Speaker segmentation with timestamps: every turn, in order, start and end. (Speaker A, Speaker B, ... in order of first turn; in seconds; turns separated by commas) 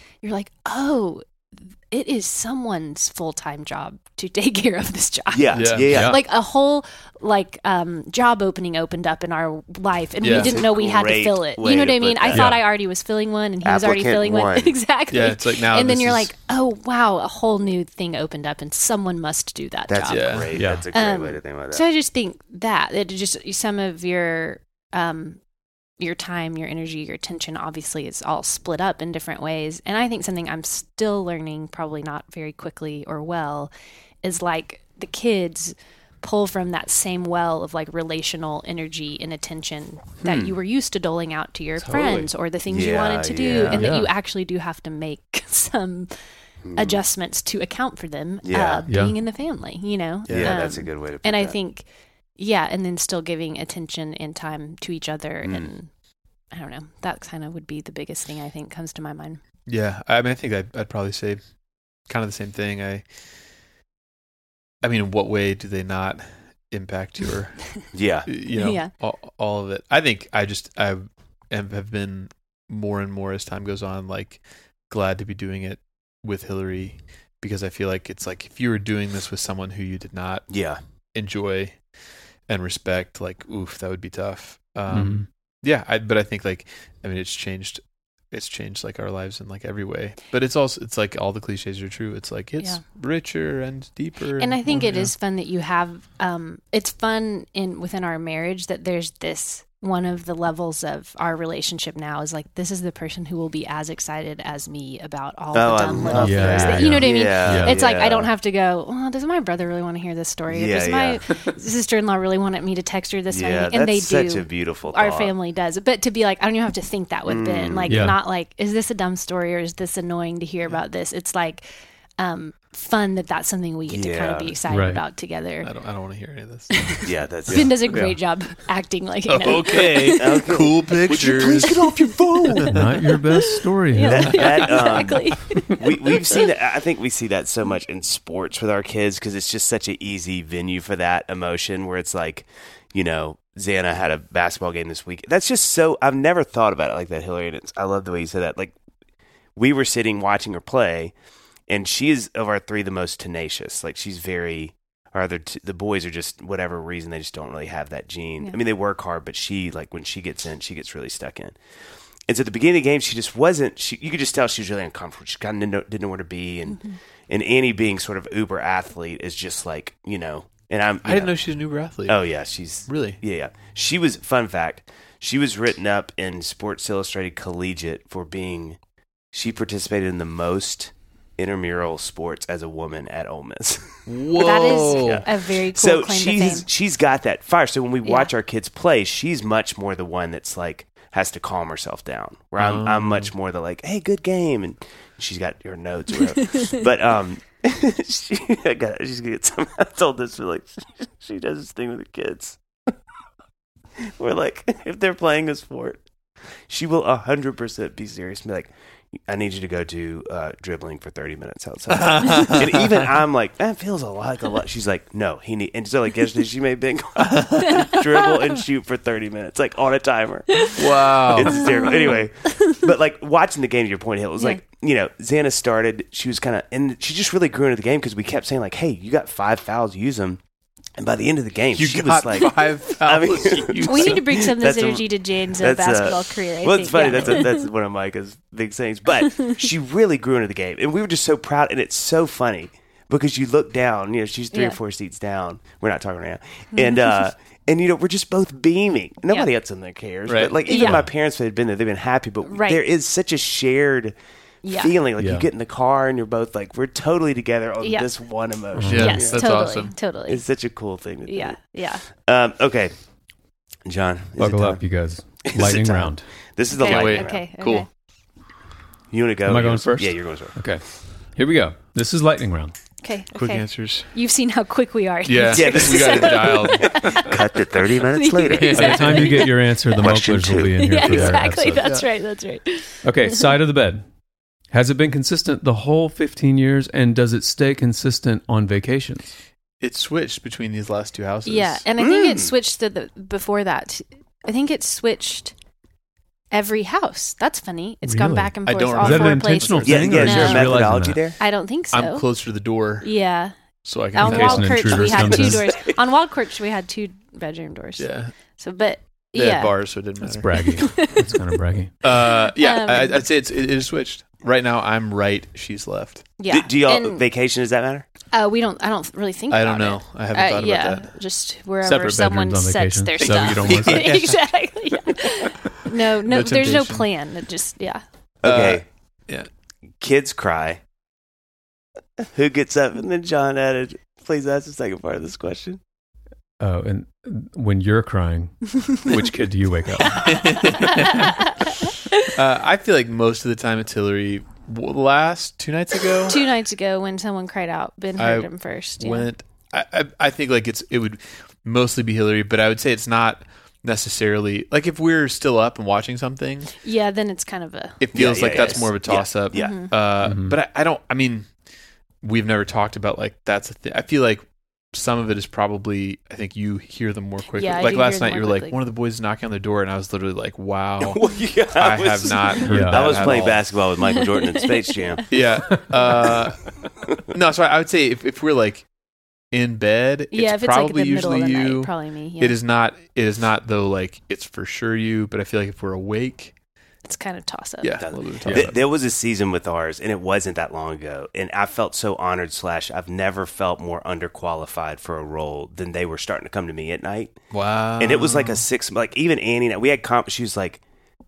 Speaker A: 0.2-1.2, Speaker A: 1.9-25.4, Speaker B: 5.3-6.2, Speaker C: 5.5-6.0, Speaker D: 5.9-6.2, Speaker C: 10.2-10.5, Speaker B: 10.2-12.5, Speaker D: 12.3-12.6, Speaker B: 13.6-14.8, Speaker C: 15.1-16.3, Speaker B: 19.9-21.8, Speaker C: 20.1-20.6, Speaker D: 20.5-20.9, Speaker A: 26.0-33.7, Speaker A: 34.2-46.1, Speaker B: 40.2-40.6, Speaker B: 41.9-43.9, Speaker D: 43.7-44.1, Speaker B: 46.7-47.0, Speaker A: 46.8-55.9, Speaker B: 48.5-48.9, Speaker D: 48.9-49.2, Speaker C: 50.3-50.6, Speaker B: 50.3-51.6, Speaker B: 55.4-55.7, Speaker A: 56.5-59.4, Speaker C: 59.7-61.4, Speaker C: 62.1-63.0, Speaker C: 64.8-80.5, Speaker B: 67.9-68.3, Speaker A: 68.5-68.9, Speaker B: 80.5-80.8, Speaker C: 81.1-81.8, Speaker C: 82.5-95.1, Speaker D: 84.9-85.3, Speaker A: 94.4-121.7, Speaker B: 105.5-108.3, Speaker D: 106.1-107.8, Speaker B: 110.5-111.2, Speaker B: 113.3-115.3, Speaker B: 117.3-118.1, Speaker D: 117.9-118.2, Speaker A: 122.2-125.7, Speaker B: 123.9-124.6, Speaker D: 124.7-125.0, Speaker C: 125.6-127.0, Speaker A: 126.7-130.5, Speaker B: 127.0-127.8, Speaker D: 127.9-128.2, Speaker C: 129.3-133.0, Speaker B: 129.7-132.7, Speaker A: 131.8-132.1, Speaker D: 132.6-134.6, Speaker A: 133.1-136.5, Speaker B: 134.1-148.8, Speaker B: 149.6-151.1, Speaker B: 151.7-161.6, Speaker B: 162.3-171.3, Speaker C: 171.1-172.3, Speaker B: 172.1-178.8, Speaker C: 172.9-173.2, Speaker B: 179.3-202.6, Speaker C: 184.1-185.3, Speaker A: 184.4-186.7, Speaker A: 188.0-188.3, Speaker C: 192.6-193.3, Speaker B: 204.2-206.0, Speaker B: 206.7-208.7, Speaker B: 209.3-230.4, Speaker C: 211.9-213.1, Speaker C: 217.2-217.8, Speaker C: 220.8-221.9, Speaker A: 221.4-222.8, Speaker B: 231.0-254.2, Speaker C: 231.7-234.3, Speaker A: 233.8-237.7, Speaker C: 237.1-237.4, Speaker A: 239.3-239.6, Speaker A: 244.5-244.8, Speaker A: 246.7-247.1, Speaker C: 250.3-250.6, Speaker A: 250.7-251.1, Speaker A: 252.4-252.8, Speaker A: 254.6-255.0, Speaker B: 254.7-259.5, Speaker D: 255.2-255.5, Speaker A: 257.8-258.1, Speaker D: 258.8-259.2, Speaker C: 258.9-259.9, Speaker A: 258.9-260.4, Speaker B: 260.3-261.6, Speaker A: 261.3-262.0, Speaker B: 262.1-262.9, Speaker B: 263.9-264.8, Speaker D: 264.4-266.2, Speaker B: 265.4-267.4, Speaker A: 266.7-267.9, Speaker C: 266.8-267.9, Speaker B: 269.1-270.6, Speaker D: 269.4-270.8, Speaker D: 271.4-272.7, Speaker A: 273.0-277.4, Speaker C: 273.3-274.1, Speaker C: 275.3-277.3, Speaker B: 275.5-279.2, Speaker A: 278.0-279.6, Speaker C: 278.5-279.5, Speaker D: 278.7-281.9, Speaker B: 279.9-281.4, Speaker A: 280.8-283.5, Speaker D: 283.0-284.0, Speaker D: 284.7-289.4, Speaker C: 289.8-291.9, Speaker A: 291.4-295.5, Speaker B: 292.0-292.5, Speaker A: 296.5-300.8, Speaker D: 298.0-301.2, Speaker C: 298.6-300.7, Speaker B: 299.9-301.4, Speaker A: 301.4-302.3, Speaker C: 301.9-303.1, Speaker A: 303.0-303.6, Speaker C: 303.9-305.2, Speaker A: 304.1-309.7, Speaker D: 304.2-305.7, Speaker B: 305.4-305.9, Speaker C: 308.0-308.3, Speaker C: 309.4-311.0, Speaker D: 310.2-311.9, Speaker A: 310.6-311.4, Speaker C: 312.0-316.3, Speaker A: 312.1-313.2, Speaker A: 316.4-317.2, Speaker B: 316.5-318.1, Speaker A: 318.3-328.0, Speaker C: 319.5-321.1, Speaker D: 321.8-324.2, Speaker C: 323.2-324.4, Speaker C: 326.2-327.1, Speaker B: 328.4-328.8, Speaker C: 328.4-329.5, Speaker B: 330.0-330.8, Speaker B: 332.2-335.8, Speaker D: 336.6-341.1, Speaker C: 340.1-341.5, Speaker A: 340.9-342.3, Speaker C: 342.2-346.4, Speaker A: 346.3-349.3, Speaker C: 348.2-356.7, Speaker A: 356.8-358.8, Speaker C: 358.0-361.5, Speaker B: 358.1-359.8, Speaker A: 359.5-359.9, Speaker D: 360.2-360.6, Speaker C: 362.2-373.7, Speaker A: 367.5-368.8, Speaker B: 371.0-375.3, Speaker D: 372.6-373.3, Speaker A: 374.1-375.2, Speaker C: 375.3-376.7, Speaker C: 377.3-378.9, Speaker C: 379.5-386.5, Speaker A: 380.3-382.6, Speaker A: 387.1-388.0, Speaker C: 387.8-388.8, Speaker B: 388.0-397.4, Speaker D: 388.4-388.7, Speaker C: 397.5-398.6, Speaker B: 398.0-400.8